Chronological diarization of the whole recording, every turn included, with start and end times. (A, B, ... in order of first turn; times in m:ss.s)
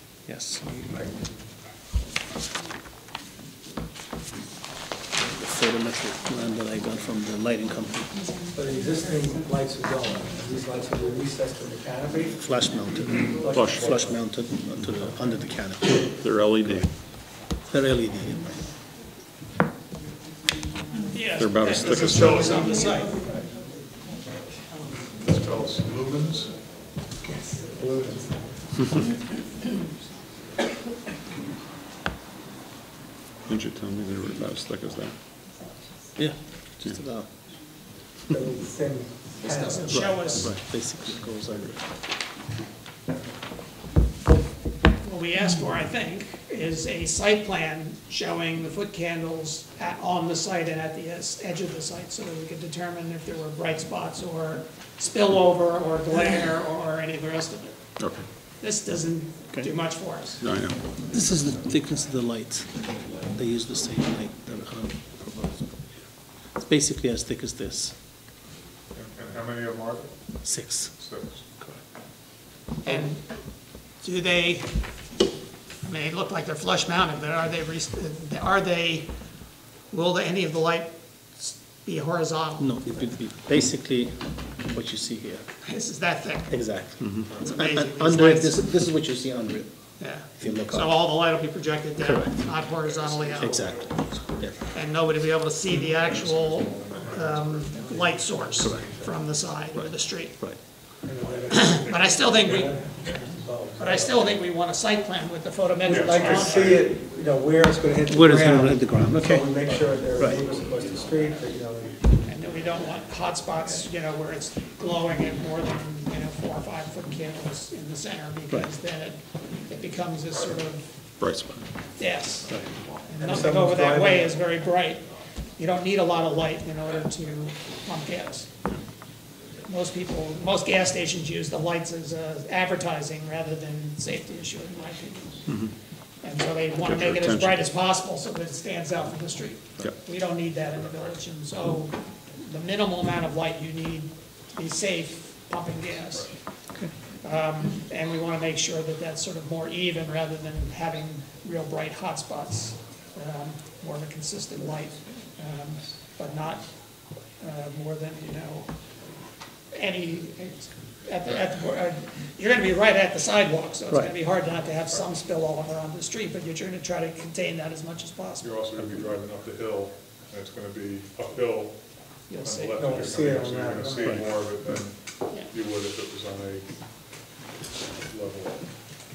0:00.3-0:00.9 A
0:05.2-0:08.1 A
0:08.5-0:12.4 B
0:12.4-0:16.0 A
0:13.3-0:14.2 B
0:13.5-0:13.9 C
0:16.0-0:16.9 C
0:17.7-0:18.6 A
0:21.1-0:23.2 D
0:21.4-0:22.6 C
0:25.2-0:26.5 E
0:27.5-0:28.3 B
0:33.5-0:35.1 C
0:36.2-0:37.3 A
0:38.3-0:40.5 B
0:39.4-0:40.5 D
0:39.9-0:41.8 A
0:45.0-0:57.8 D
0:58.0-0:58.2 C
0:58.6-1:00.4 D
1:00.4-1:00.8 C
1:01.0-1:05.7 A
1:06.6-1:07.9 A
1:08.9-1:10.1 E
1:10.4-1:11.0 A
1:11.0-1:11.4 E
1:12.8-1:13.2 D
1:14.0-1:14.7 D
1:15.8-1:19.1 D
1:19.9-1:22.8 D
1:22.6-1:25.4 A
1:25.6-1:26.6 D
1:26.5-1:29.7 A
1:27.0-1:27.3 C
1:27.4-1:28.6 D
1:30.0-1:33.7 D
1:30.3-1:31.0 A
1:32.0-1:32.5 A
1:32.9-1:34.6 E
1:33.4-1:34.6 A
1:34.7-1:40.4 D
1:35.7-1:38.1 E
1:38.6-1:38.9 A
1:39.7-1:40.6 A
1:41.0-1:44.0 B
1:41.5-1:42.8 D
1:43.8-1:46.9 D
1:45.8-1:52.0 B
1:45.9-1:46.8 E
1:48.1-1:50.4 A
1:52.2-2:00.9 D
2:01.2-2:01.6 C
2:02.0-2:05.0 D
2:03.2-2:04.4 B
2:05.6-2:08.5 D
2:09.7-2:15.6 D
2:16.2-2:26.3 D
2:16.8-2:17.6 C
2:27.2-2:36.6 D
2:37.4-2:38.7 D
2:39.7-2:48.5 D
2:48.4-2:51.8 E
2:52.3-2:52.8 D
2:52.3-2:56.7 E
2:52.8-2:54.3 B
2:58.0-2:58.6 E